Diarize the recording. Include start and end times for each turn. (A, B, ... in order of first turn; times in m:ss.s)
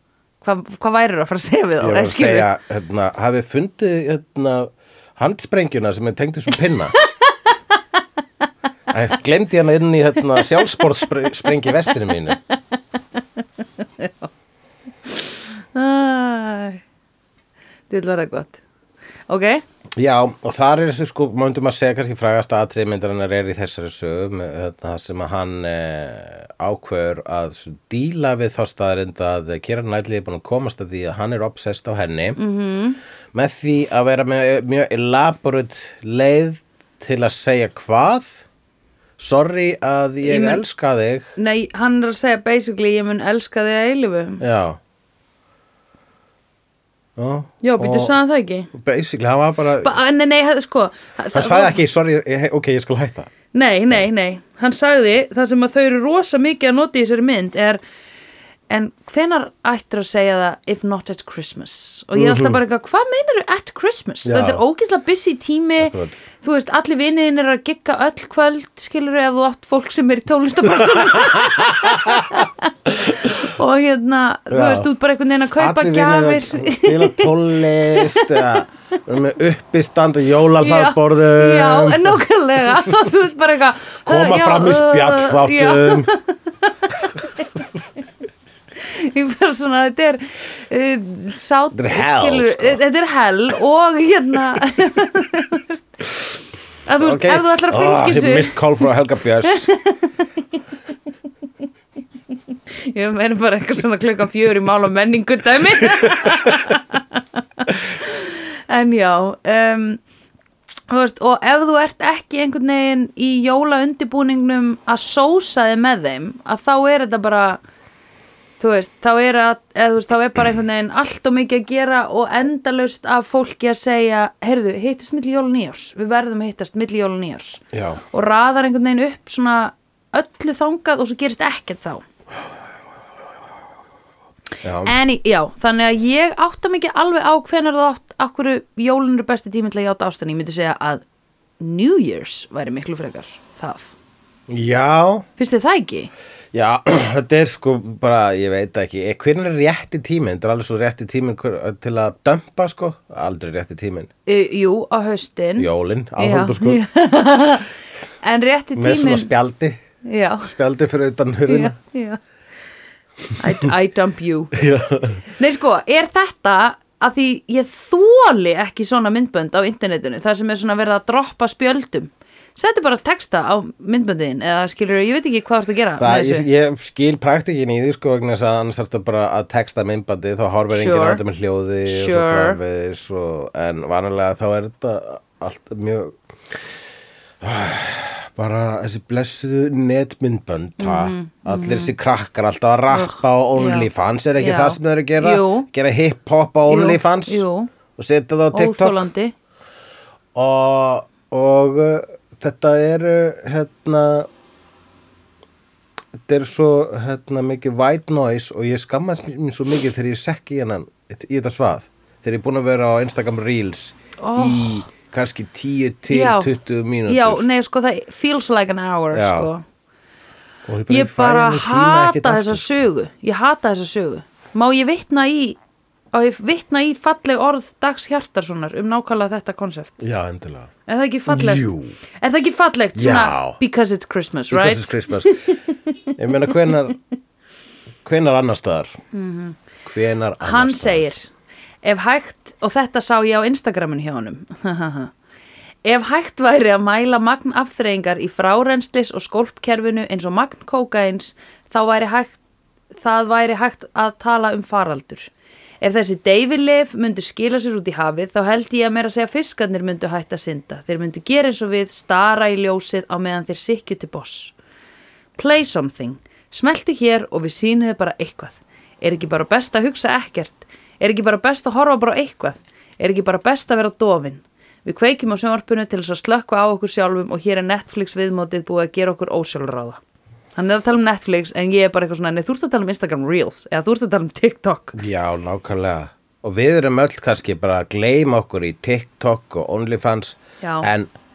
0:00.4-0:02.5 A
0:01.8-0:07.0 B
0:08.9-0:12.4 B
0:13.8-0:14.3 A
0:15.1-0:16.8 A
0:17.9-0:18.6 A
0:19.3-0:19.6 A
0:20.0-0:32.4 B
0:32.4-0:33.0 A
0:33.3-0:38.4 B
0:39.2-0:41.3 B
0:40.2-0:40.6 A
0:41.4-0:44.4 A
0:44.4-0:44.8 B
0:47.2-0:48.2 B
0:47.6-0:48.7 A
0:48.7-0:50.0 B
0:49.8-0:51.8 A
0:51.3-0:53.3 B
0:53.5-0:57.8 A
0:58.7-1:18.6 A
1:02.2-1:02.6 B
1:04.2-1:04.6 B
1:05.8-1:06.2 B
1:11.1-1:13.3 B
1:14.5-1:14.9 B
1:15.6-1:23.1 B
1:20.6-1:27.5 A
1:24.0-1:26.1 B
1:28.8-1:35.8 A
1:31.7-1:32.8 B
1:36.8-1:38.6 A
1:37.0-1:39.7 B
1:39.4-1:40.1 A
1:42.8-1:50.0 A
1:46.0-1:46.5 B
1:50.9-1:57.6 A
1:58.6-2:12.0 A
2:07.7-2:08.0 B
2:14.6-2:14.9 B
2:14.8-2:21.0 A
2:21.6-2:24.0 A
2:24.5-2:25.3 B
2:25.4-2:26.1 A
2:26.5-2:34.1 B
2:34.2-2:37.7 A
2:35.6-2:36.8 B
2:38.2-2:39.3 A
2:38.8-2:39.8 B
2:40.0-2:40.5 A
2:40.4-2:41.8 B
2:41.5-2:42.2 A
2:43.4-2:44.6 A
2:44.5-2:45.2 B
2:45.3-2:56.4 A
2:56.0-3:06.6 B
3:00.7-3:01.2 A
3:01.8-3:02.6 A
3:07.4-3:17.4 B
3:10.8-3:11.9 A
3:12.9-3:15.7 A
3:16.7-3:17.7 A
3:18.0-3:19.1 B
3:18.5-3:19.3 A
3:20.3-3:24.3 B
3:26.2-3:37.4 B
3:34.2-3:34.9 A
3:36.1-3:36.5 A
3:37.0-3:39.6 A
3:39.1-3:39.5 B
3:40.6-3:42.8 B
3:40.9-3:45.6 A
3:46.1-3:50.0 A
3:50.0-3:50.7 B
3:50.9-3:51.7 A
3:51.3-3:52.0 B
3:52.2-3:56.0 A
3:53.0-3:53.6 B
3:54.5-3:55.6 B
3:56.2-3:57.0 B
3:58.0-3:59.0 B
3:59.1-3:59.6 A
3:59.8-4:01.0 B
4:00.4-4:01.3 A
4:01.8-4:05.1 A
4:05.8-4:12.4 A
4:13.0-4:15.3 A
4:15.8-4:24.5 A
4:25.4-4:40.0 A
4:40.6-4:45.0 A
4:44.9-4:51.1 B
4:50.6-4:50.9 A